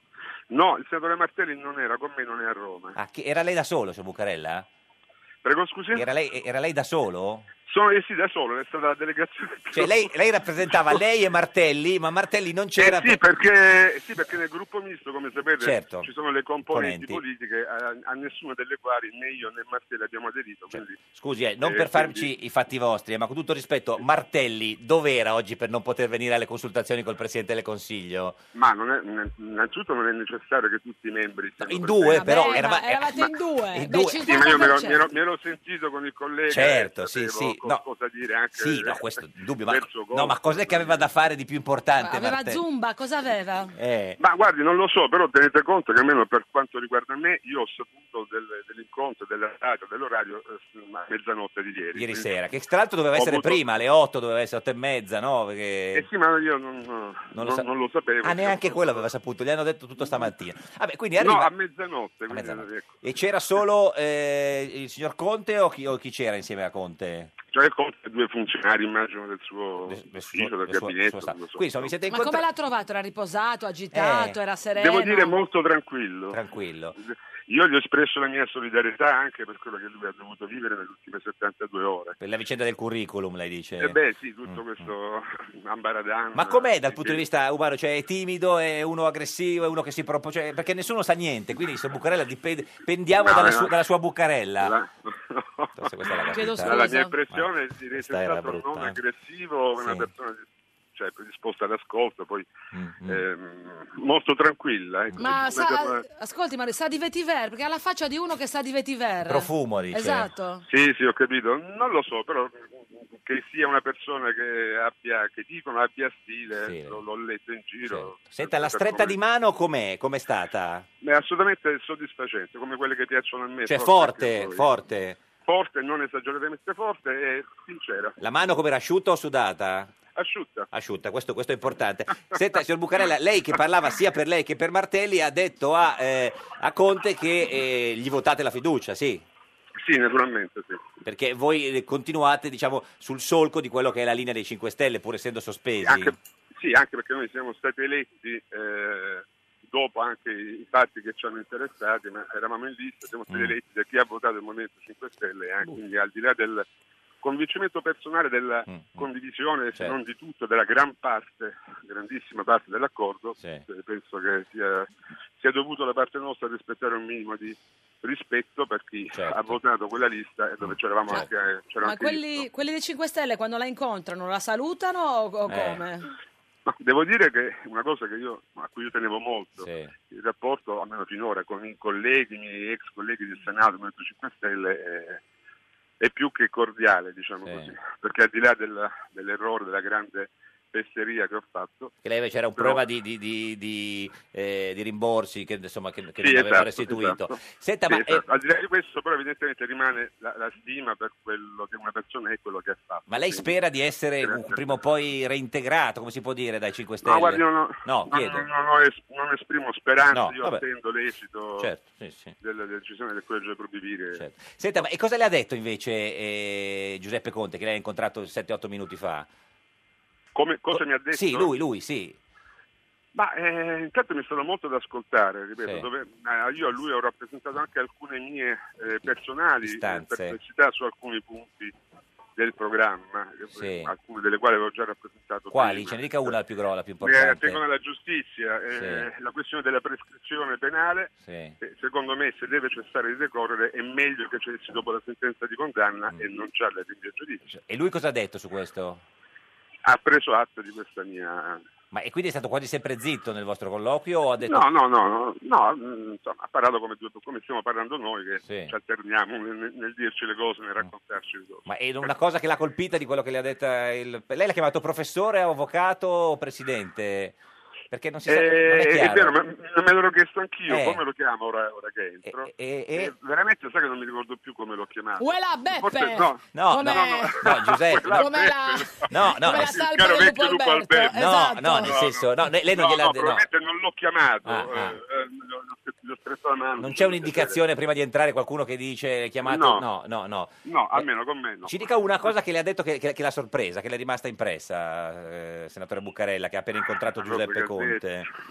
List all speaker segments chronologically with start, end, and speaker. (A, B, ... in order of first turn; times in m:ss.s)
0:00.5-0:03.0 A
0:03.0-0:04.7 B
0:05.4-0:06.1 A
0:05.9-0:07.5 B
0:07.7-0:10.1 A
0:09.7-0:13.2 B
0:12.8-0:21.0 A
0:15.6-0:16.1 B
0:16.7-0:17.2 B
0:20.7-0:28.4 B
0:21.6-0:22.3 A
0:28.5-0:32.6 A
0:31.6-0:34.3 B
0:32.1-0:35.0 C
0:34.2-0:41.0 A
0:36.5-0:37.8 B
0:38.5-0:42.6 B
0:42.0-0:43.7 C
0:43.8-0:44.2 B
0:44.2-0:52.3 A
0:51.9-0:56.1 B
0:53.2-0:53.6 A
0:55.9-0:59.1 A
0:57.3-0:57.7 B
0:58.2-1:01.5 B
1:00.0-1:00.3 A
1:01.2-1:02.9 A
1:02.3-1:07.3 B
1:07.5-1:11.9 A
1:09.8-1:12.4 B
1:12.1-1:15.4 C
1:13.9-1:14.4 B
1:14.8-1:16.4 A
1:16.3-1:17.0 B
1:16.9-1:22.1 A
1:22.2-1:24.8 B
1:23.8-1:27.2 A
1:26.3-1:34.8 B
1:33.2-1:33.7 A
1:34.6-1:42.5 A
1:35.8-1:39.0 B
1:36.1-1:37.2 C
1:39.8-1:40.1 B
1:42.7-1:43.2 B
1:43.0-1:46.0 A
1:45.2-1:50.6 C
1:49.2-1:50.3 B
1:50.6-1:59.2 A
1:56.6-1:57.0 B
1:57.8-2:00.8 B
2:01.0-2:04.7 A
2:03.6-2:05.2 B
2:05.4-2:08.2 A
2:08.2-2:09.9 B
2:10.2-2:10.7 A
2:10.7-2:19.2 B
2:19.8-2:20.8 A
2:21.0-2:26.2 B
2:25.8-2:36.6 A
2:33.3-2:33.6 B
2:37.2-2:52.4 A
2:38.7-2:39.1 B
2:43.4-2:43.6 B
2:49.1-2:49.6 B
2:50.6-2:51.3 B
2:51.8-2:56.1 C
2:55.5-2:55.8 B
2:56.7-3:05.2 A
2:59.6-2:59.9 B
3:06.0-3:11.9 A
3:07.4-3:07.7 B
3:12.0-3:18.2 B
3:12.6-3:12.8 A
3:16.2-3:23.5 A
3:23.1-3:28.5 B
3:24.2-3:24.8 A
3:27.0-3:31.7 A
3:30.1-3:30.6 B
3:31.6-3:32.3 B
3:32.4-3:34.9 A
3:34.1-3:39.3 B
3:40.3-3:41.5 A
3:40.7-3:42.2 B
3:43.1-3:51.7 A
3:45.6-3:45.9 B
3:49.6-3:50.4 B
3:52.4-3:56.4 A
3:53.5-3:53.9 B
3:55.5-3:57.6 B
3:57.0-4:07.4 A
3:58.7-3:59.1 B
4:01.2-4:01.6 B
4:07.5-4:09.0 B
4:09.8-4:11.6 A
4:11.9-4:14.7 B
4:14.4-4:22.1 A
4:18.4-4:18.7 B
4:21.6-4:27.4 B
4:27.9-4:29.4 B
4:28.3-4:47.6 A
4:30.7-4:31.0 B
4:32.2-4:33.1 B
4:35.2-4:37.4 C
4:36.5-4:38.5 B
4:38.1-4:42.0 C
4:39.1-4:39.9 B
4:41.1-4:43.4 B
4:44.4-4:45.0 B
4:46.8-4:51.1 B
4:49.4-4:49.8 A
4:50.6-4:52.3 A
4:51.6-4:58.3 B
4:57.2-4:58.0 A